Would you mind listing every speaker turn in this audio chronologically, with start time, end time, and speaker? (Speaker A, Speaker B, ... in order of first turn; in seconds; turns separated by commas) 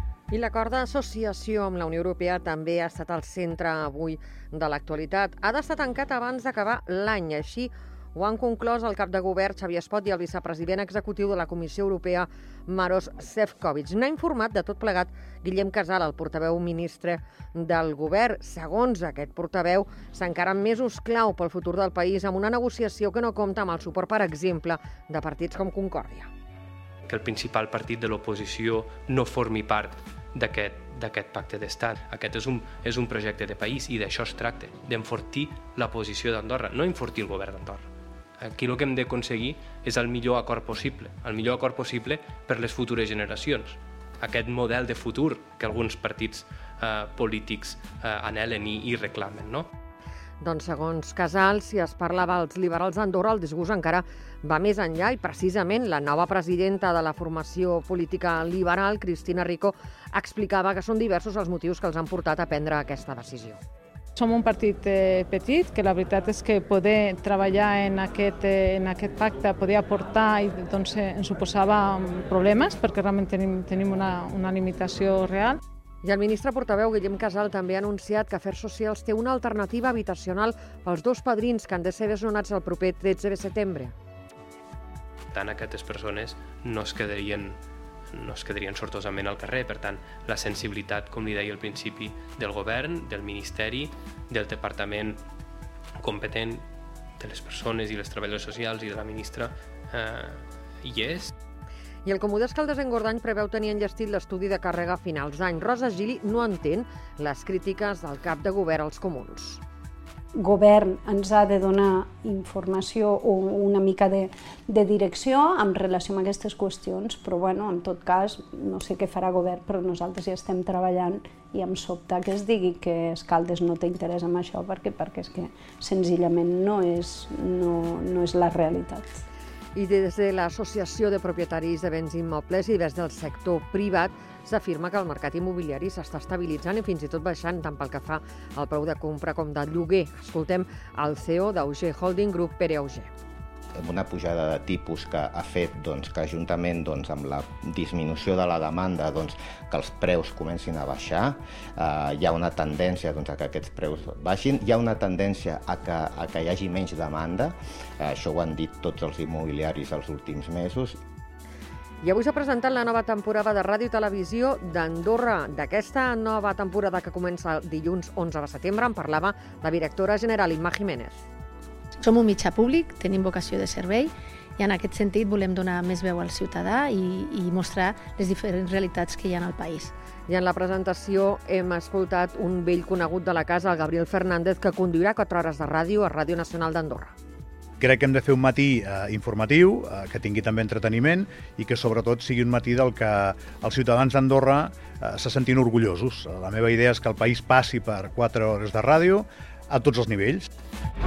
Speaker A: 0.3-26.3, Speaker B: 27.1-37.9, Speaker B: 38.4-49.7, Speaker A: 50.4-63.6, Speaker C: 64.2-75.6, Speaker A: 76.0-83.9, Speaker B: 85.3-87.6, Speaker B: 88.1-95.2, Speaker B: 96.0-96.6, Speaker B: 97.2-101.3, Speaker A: 102.0-109.6, Speaker D: 110.4-129.2, Speaker A: 129.8-143.1, Speaker E: 143.7-161.0, Speaker A: 162.0-171.2, Speaker F: 172.0-179.9, Speaker A: 180.3-187.2, Speaker G: 187.8-200.5